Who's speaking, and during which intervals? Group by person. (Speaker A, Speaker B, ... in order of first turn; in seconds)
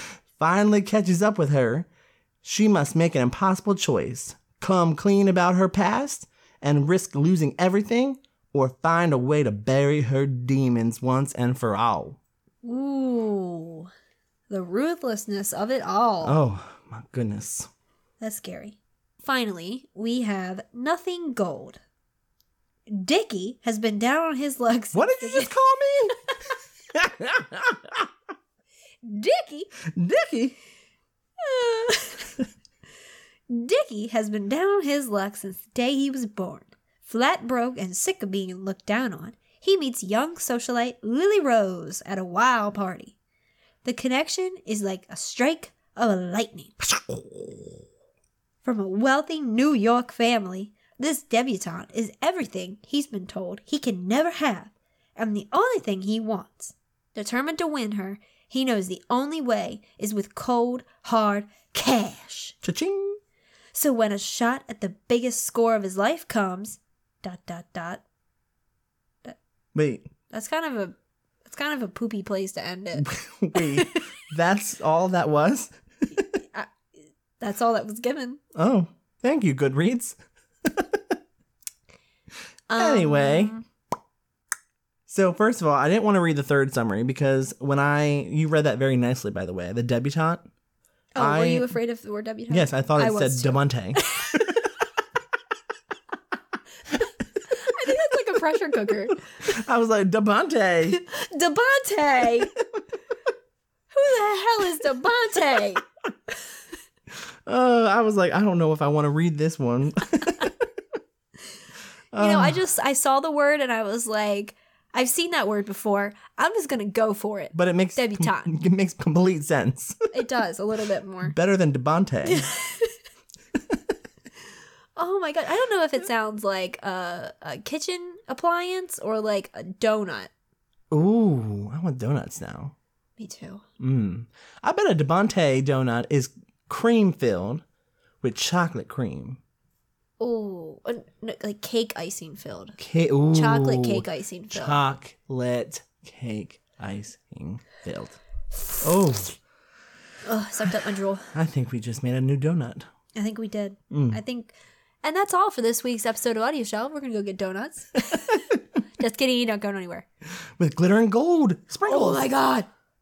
Speaker A: 0.4-1.9, 2.4-12.2, 16.2-17.7, 24.9-26.2, 26.9-28.1, 29.9-30.6, 46.8-47.7, 62.6-63.2, 69.7-70.1, 73.0-76.2, 78.5-81.0, 82.7-83.5, 85.1-90.4, 91.2-91.7, 92.5-94.5, 99.4-101.0, 102.4-102.8, 107.5-110.5, 112.1-112.6, 117.5-120.1, 121.2-122.5, 130.9-132.7, 133.8-137.6, 138.2-139.4, 142.8-148.2, 148.8-149.4, 151.3-152.9, 153.9-154.2, 160.6-162.3
Speaker B: 12.6-13.9, 14.5-16.4, 18.2-21.8, 22.9-25.5, 29.0-29.7, 31.4-32.3, 33.5-43.1, 43.8-46.8, 48.6-62.5, 63.7-68.0, 70.3-74.0, 76.2-76.7, 77.4-78.4, 82.7-83.6, 91.1-94.7, 97.5-99.2, 100.9-102.5, 103.9-105.8, 112.2-118.5, 120.1-121.3, 122.2-123.0, 125.0-130.3, 133.2-133.6, 140.2-142.8, 143.3-144.8, 150.2-151.3, 153.1-160.1, 161.8-162.7